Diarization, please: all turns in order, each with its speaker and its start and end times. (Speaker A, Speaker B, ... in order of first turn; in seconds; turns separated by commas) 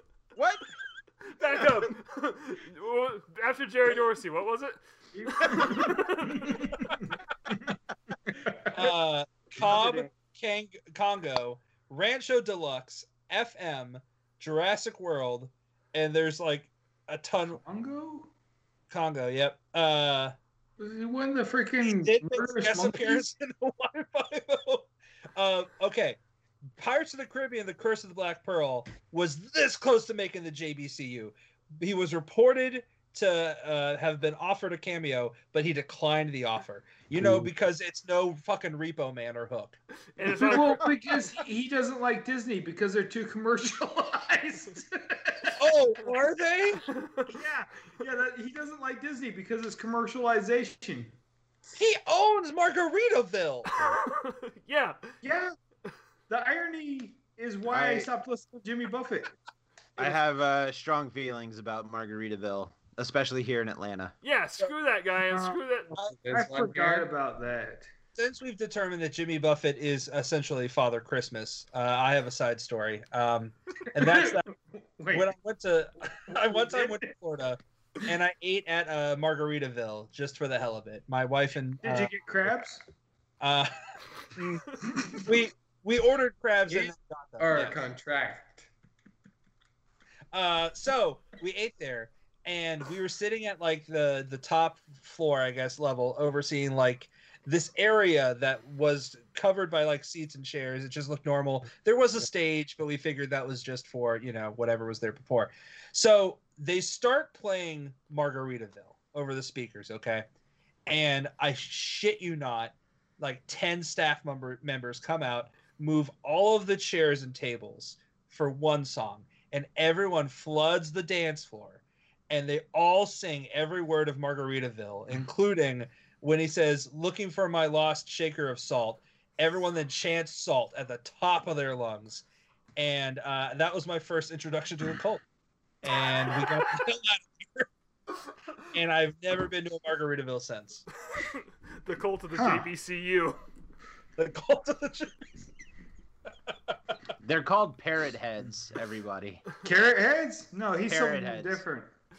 Speaker A: 0.3-0.7, Speaker B: 1.2-7.1, Speaker C: 5.1-7.7, Speaker C: 8.3-8.9, Speaker D: 8.7-17.6, Speaker C: 9.6-10.1, Speaker C: 17.5-18.3, Speaker D: 18.9-20.3, Speaker C: 20.8-23.2, Speaker D: 21.8-26.2, Speaker D: 26.8-40.8, Speaker B: 40.1-40.9, Speaker C: 40.3-45.6, Speaker D: 45.6-46.8, Speaker B: 46.9-47.3, Speaker C: 47.3-51.1, Speaker D: 51.7-53.7, Speaker B: 53.7-55.1, Speaker C: 55.2-55.5, Speaker C: 56.3-59.3, Speaker A: 57.7-58.1, Speaker A: 60.0-64.1, Speaker B: 64.2-65.9, Speaker C: 65.3-65.6, Speaker E: 66.0-67.1, Speaker C: 66.3-67.9, Speaker D: 68.2-74.5, Speaker C: 74.0-75.3, Speaker D: 75.1-82.1, Speaker C: 76.3-77.1, Speaker C: 81.8-82.8, Speaker D: 83.4-87.8, Speaker C: 84.8-85.3, Speaker E: 87.4-88.7, Speaker D: 90.3-110.2, Speaker D: 110.9-132.2, Speaker D: 132.8-135.2, Speaker D: 135.8-137.7, Speaker D: 138.7-140.8, Speaker B: 141.2-143.4, Speaker C: 142.3-142.7, Speaker D: 144.2-145.3, Speaker D: 146.5-146.7, Speaker A: 147.2-149.6, Speaker C: 149.6-151.9, Speaker A: 150.9-151.6